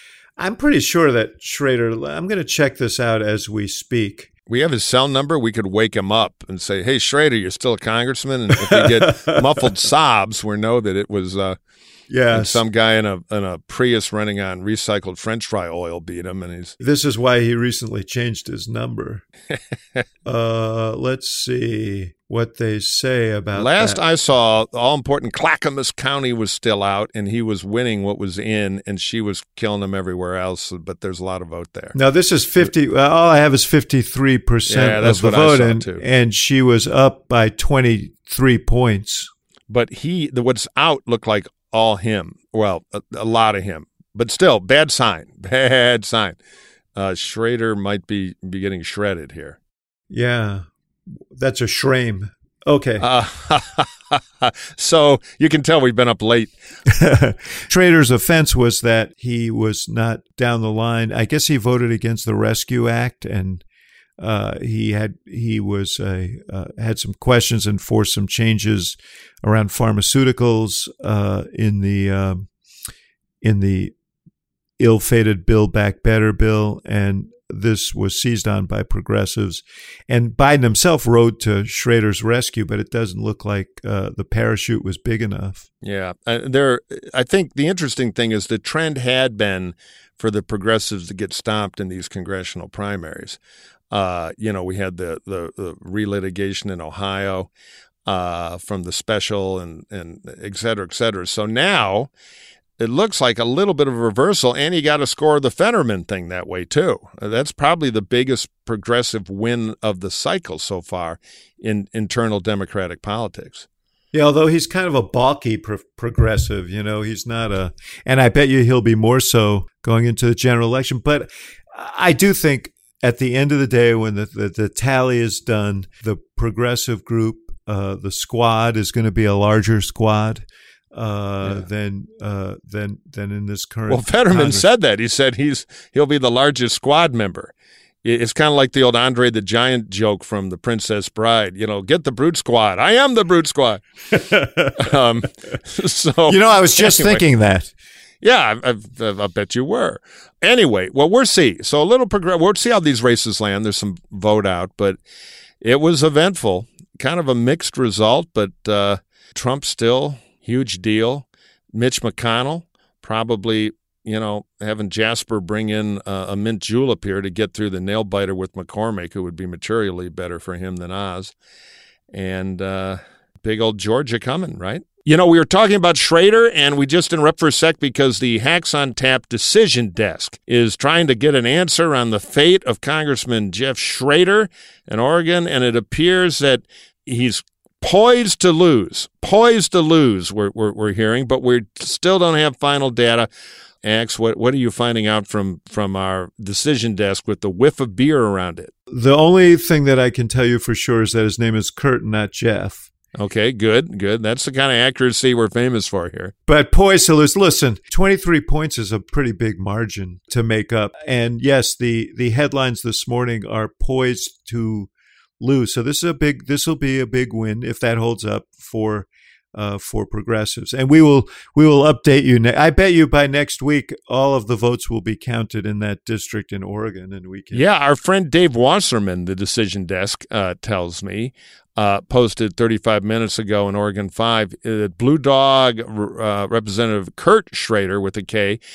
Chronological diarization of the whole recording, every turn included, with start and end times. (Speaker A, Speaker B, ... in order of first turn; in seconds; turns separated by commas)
Speaker A: 0.4-4.3, Speaker B: 4.5-11.6, Speaker A: 8.6-9.7, Speaker A: 12.1-12.6, Speaker B: 12.3-16.8, Speaker A: 16.8-19.2, Speaker A: 20.2-24.0, Speaker B: 23.5-31.9, Speaker A: 31.9-39.3, Speaker B: 34.7-36.0, Speaker B: 39.7-46.4, Speaker B: 46.9-49.6, Speaker A: 50.1-50.6, Speaker A: 51.3-53.0, Speaker B: 53.0-56.5, Speaker A: 56.9-63.6, Speaker A: 64.2-72.5, Speaker A: 73.4-73.9, Speaker A: 74.8-85.7, Speaker B: 85.8-93.4, Speaker B: 93.9-97.5, Speaker B: 98.0-102.1, Speaker B: 102.8-113.7, Speaker A: 114.1-134.7, Speaker B: 133.9-137.5, Speaker B: 138.0-143.8, Speaker A: 144.1-144.9, Speaker B: 144.8-147.2, Speaker A: 146.3-147.7, Speaker B: 148.2-155.0, Speaker B: 155.6-171.3, Speaker B: 172.1-193.3, Speaker B: 193.8-198.7, Speaker A: 198.9-202.9, Speaker B: 203.1-206.3, Speaker A: 206.5-227.6, Speaker B: 227.5-238.6